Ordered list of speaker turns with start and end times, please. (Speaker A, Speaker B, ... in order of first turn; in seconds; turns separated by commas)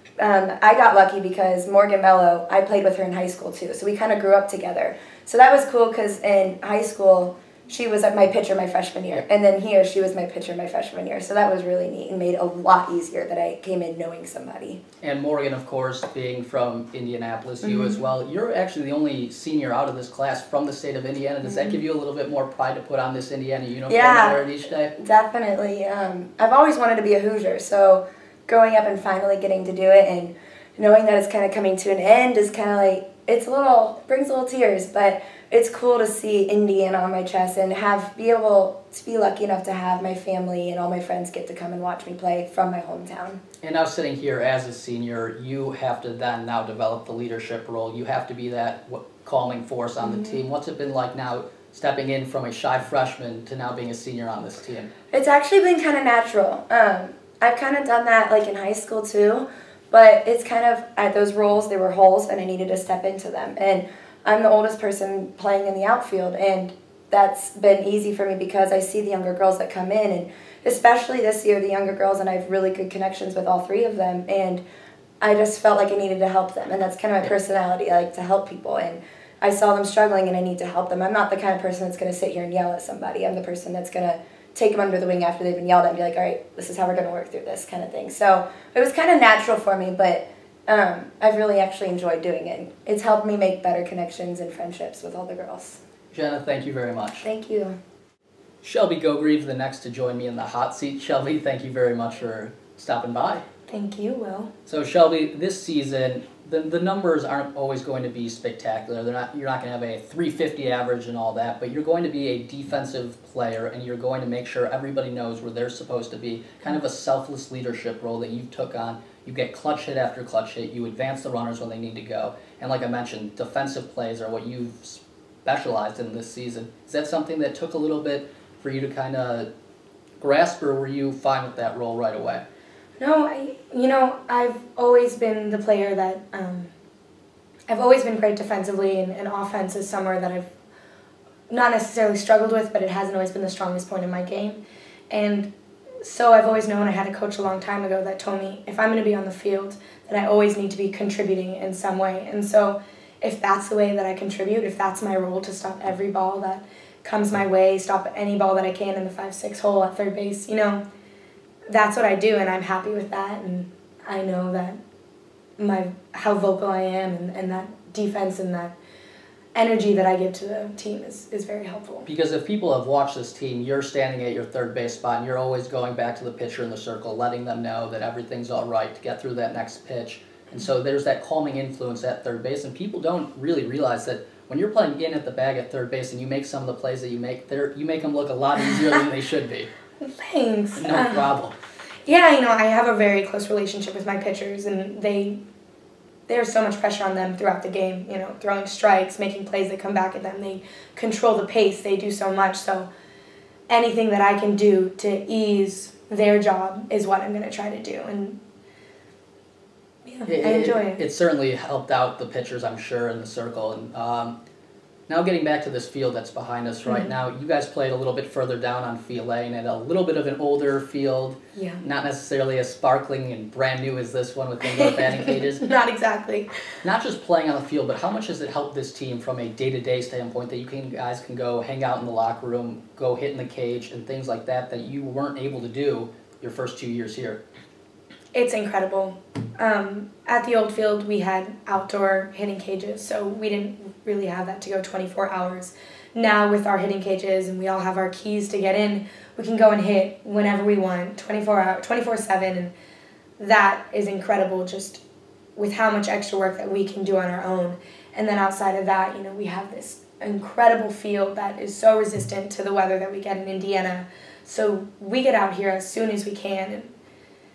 Speaker A: 0.2-14.8, Speaker B: 15.0-24.9, Speaker A: 17.6-18.0, Speaker A: 23.9-24.4, Speaker A: 24.9-43.4, Speaker B: 43.6-54.9, Speaker A: 50.0-50.4, Speaker A: 55.1-74.6, Speaker A: 75.2-95.8, Speaker B: 96.1-97.2, Speaker A: 97.2-97.8, Speaker B: 98.6-103.5, Speaker C: 103.7-104.5, Speaker B: 104.7-129.5, Speaker B: 130.2-132.4, Speaker C: 133.0-136.7, Speaker C: 137.7-140.5, Speaker C: 141.5-145.5, Speaker C: 146.0-160.8, Speaker C: 161.7-164.8, Speaker C: 165.6-168.7, Speaker C: 169.6-172.1, Speaker B: 172.1-189.7, Speaker C: 190.0-191.3, Speaker B: 190.8-191.5, Speaker C: 192.1-195.4, Speaker C: 196.3-202.9, Speaker C: 203.7-208.4, Speaker C: 210.1-211.0, Speaker B: 210.3-214.4, Speaker B: 215.1-225.7, Speaker C: 221.6-221.8, Speaker C: 224.7-226.5, Speaker B: 226.8-237.4, Speaker C: 238.3-252.7, Speaker C: 253.4-255.0, Speaker C: 255.6-266.9